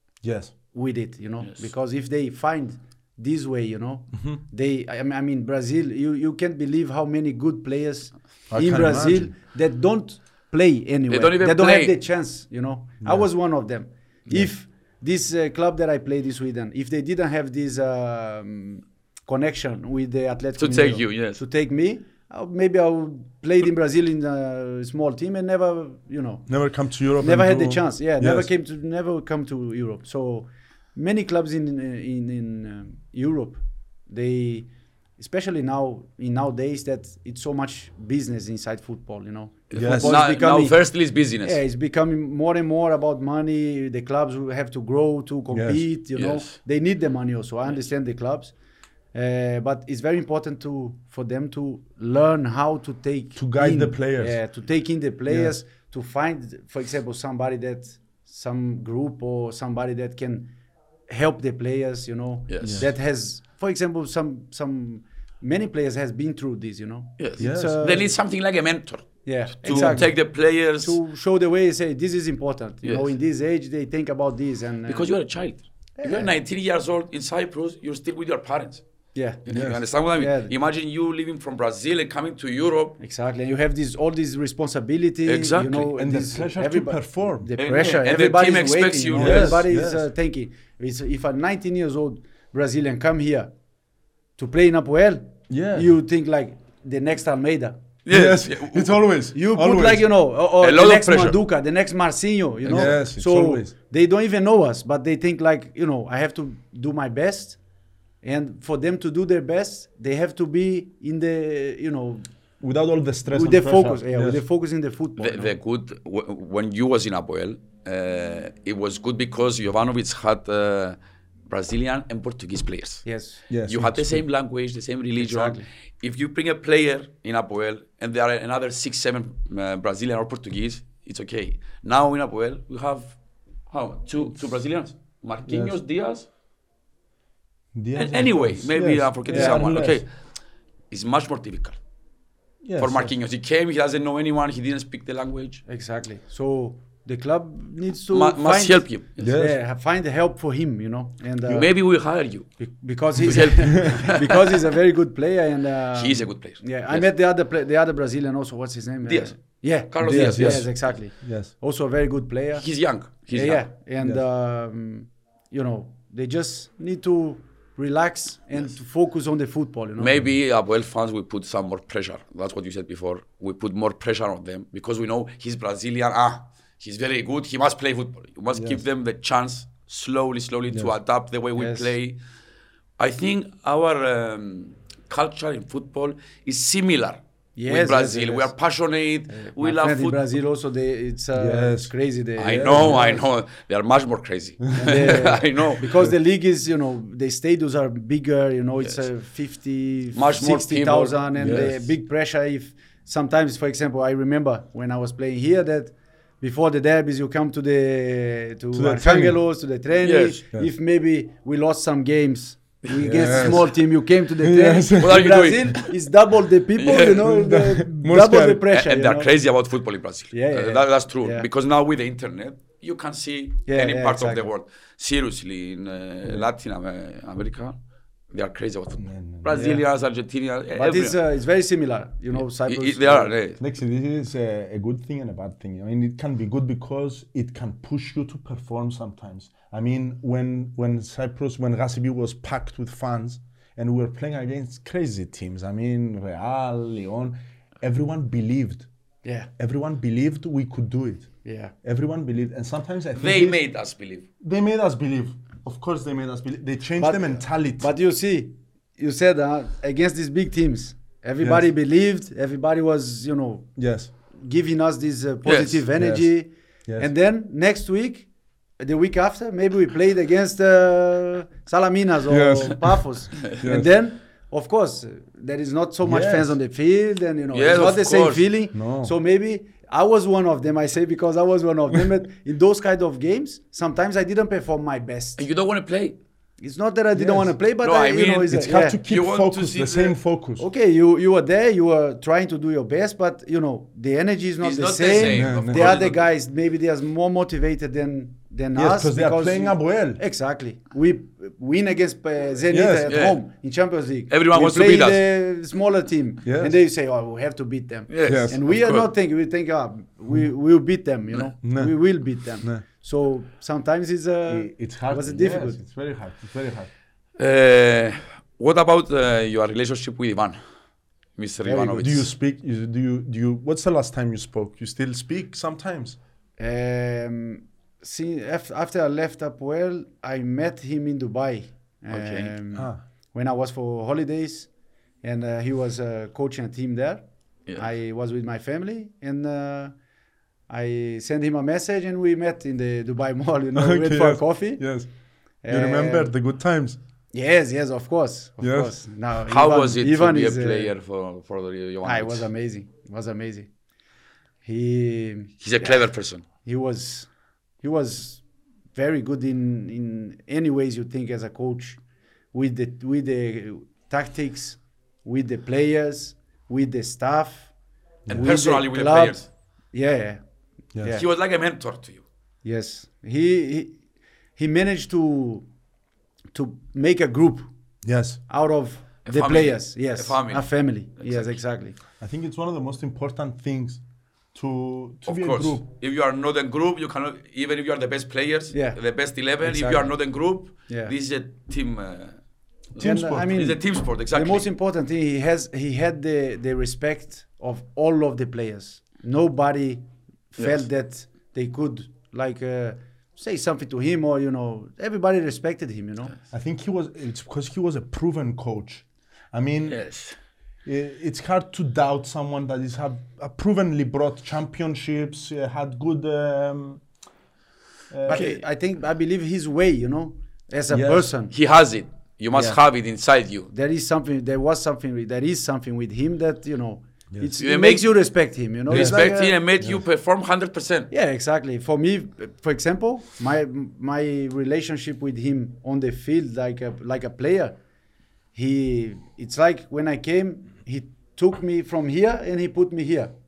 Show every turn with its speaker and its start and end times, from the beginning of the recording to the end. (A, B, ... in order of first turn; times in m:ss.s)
0:00.2-0:00.5 A
0:00.7-0:26.5 B
0:08.5-0:09.3 A
0:11.1-0:11.9 C
0:13.0-0:13.3 A
0:20.6-0:21.4 C
0:26.5-0:28.5 A
0:27.2-0:40.8 B
0:39.7-0:41.6 C
0:39.7-0:40.2 A
0:41.4-0:48.5 B
0:45.5-0:45.8 A
0:46.1-0:46.6 C
0:49.1-1:00.5 B
0:53.4-0:54.4 A
0:55.3-0:55.5 A
1:01.1-1:08.1 B
1:02.5-1:02.8 C
1:02.6-1:02.9 A
1:07.2-1:11.0 C
1:07.4-1:07.9 A
1:09.2-1:10.2 B
1:09.7-1:10.0 A
1:10.8-1:15.1 B
1:12.8-1:13.1 C
1:14.9-1:18.8 C
1:16.0-1:16.3 B
1:19.1-1:19.4 B
1:19.4-1:23.0 C
1:19.5-1:19.8 A
1:20.1-1:20.5 B
1:23.0-1:33.5 B
1:25.2-1:25.9 C
1:26.0-1:27.5 A
1:27.6-1:29.6 C
1:29.1-1:30.1 A
1:34.4-1:37.8 B
1:35.5-1:35.9 A
1:38.0-1:39.0 C
1:38.1-1:40.1 A
1:39.3-1:47.6 B
1:40.6-1:41.4 C
1:42.6-1:43.7 A
1:48.2-1:52.3 B
1:52.6-1:54.4 A
1:53.3-1:55.5 B
1:55.2-2:01.0 C
2:01.5-2:03.0 C
2:03.0-2:03.4 B
2:03.5-2:04.2 A
2:03.6-2:13.1 C
2:05.2-2:05.6 B
2:13.7-2:16.3 C
2:15.5-2:15.8 A
2:17.7-2:20.0 A
2:17.9-2:20.1 C
2:19.3-2:19.7 B
2:20.9-2:21.8 C
2:22.6-2:23.1 A
2:22.8-2:25.6 C
2:25.6-2:31.7 B
2:28.1-2:29.2 C
2:29.2-2:29.6 A
2:31.5-2:32.5 C
2:32.6-2:42.6 B
2:33.2-2:34.6 C
2:35.9-2:37.0 C
2:39.0-2:40.7 C
2:40.0-2:41.5 A
2:42.6-2:43.6 C
2:43.3-2:50.2 B
2:50.0-3:02.2 C
2:58.5-2:58.8 A
3:00.7-3:01.0 A
3:01.6-3:01.9 B
3:03.0-3:10.3 C
3:07.6-3:08.5 B
3:09.3-3:13.2 B
3:11.3-3:13.2 A
3:12.4-3:15.8 C
3:14.7-3:39.3 B
3:20.1-3:21.7 C
3:21.4-3:21.9 A
3:28.7-3:29.4 A
3:30.0-3:30.4 C
3:33.0-3:35.4 A
3:35.0-3:35.9 C
3:36.8-3:37.2 C
3:37.2-3:38.6 A
3:38.7-3:47.8 C
3:40.3-3:41.4 B
3:43.6-3:44.5 B
3:48.3-3:51.2 C
3:49.0-3:49.6 A
3:49.5-3:49.8 B
3:50.7-3:53.3 B
3:52.3-3:53.6 C
3:53.6-4:08.9 A
4:09.2-4:09.5 B
4:09.6-4:11.3 A
4:11.4-4:11.7 B
4:11.8-4:13.6 A
4:13.2-4:14.2 C
4:14.4-4:17.9 A
4:17.0-4:23.7 B
4:21.4-4:21.6 A
4:23.8-4:24.1 A
4:24.3-4:28.3 B
4:25.4-4:25.8 C
4:26.0-4:26.3 A
4:26.9-4:27.1 A
4:28.8-4:45.4 B
4:32.3-4:33.0 A
4:33.6-4:33.9 A
4:36.0-4:36.6 A
4:37.5-4:38.5 C
4:38.7-4:39.1 A
4:45.4-4:46.2 C
4:46.6-4:49.0 B
4:47.1-4:47.5 A
4:47.8-4:50.2 C
4:48.5-4:50.7 A
4:50.6-5:15.8 B
4:54.6-4:56.3 C
4:55.3-4:55.9 A
4:58.7-5:00.2 A
5:02.7-5:03.1 A
5:03.1-5:03.4 C
5:04.3-5:05.2 C
5:06.4-5:06.8 A
5:08.1-5:09.1 C
5:08.2-5:08.6 A
5:11.6-5:11.9 A
5:14.5-5:16.9 A
5:17.4-5:20.6 C
5:21.4-5:22.2 C
5:21.6-5:22.2 B
5:22.0-5:26.2 A
5:26.6-5:34.7 B
5:32.1-5:32.5 C
5:32.7-5:33.0 A
5:35.2-5:37.2 B
5:37.8-5:39.9 B
5:40.7-5:44.8 B
5:43.7-5:45.1 A
5:45.6-5:46.3 B
5:45.7-5:47.0 A
5:47.3-5:50.9 B
5:48.6-5:48.9 A
5:49.5-5:52.5 C
5:52.0-5:53.7 B
5:54.6-5:57.3 B
5:55.6-5:56.4 C
5:57.8-5:58.4 B
5:58.9-6:02.0 B
6:02.5-6:07.7 B
6:08.2-6:08.5 A
6:08.3-6:09.5 C
6:08.3-6:09.4 B
6:09.9-6:10.4 B
6:11.1-6:12.2 C
6:12.6-6:14.0 B
6:14.6-6:15.6 B
6:16.5-6:17.7 B
6:18.0-6:18.4 A
6:18.5-6:22.0 B
6:19.2-6:20.7 C
6:21.2-6:21.6 C
6:22.2-6:24.0 A
6:24.5-6:25.8 A
6:25.3-6:32.4 C
6:28.7-6:29.0 B
6:29.6-6:30.1 B
6:30.9-6:31.1 B
6:33.0-6:33.6 A
6:33.0-6:34.7 C
6:33.0-6:46.3 B
6:46.5-6:50.0 A
6:49.9-6:50.4 C
6:50.8-6:57.0 A
6:58.1-6:58.4 A
6:58.3-7:01.5 B
6:58.3-6:58.6 C
7:00.9-7:01.3 A
7:01.5-7:03.7 C
7:02.5-7:02.8 A
7:03.7-7:09.6 B
7:07.6-7:08.2 C
7:08.9-7:11.1 C
7:08.9-7:09.3 A
7:11.1-7:17.8 B
7:18.5-7:23.3 B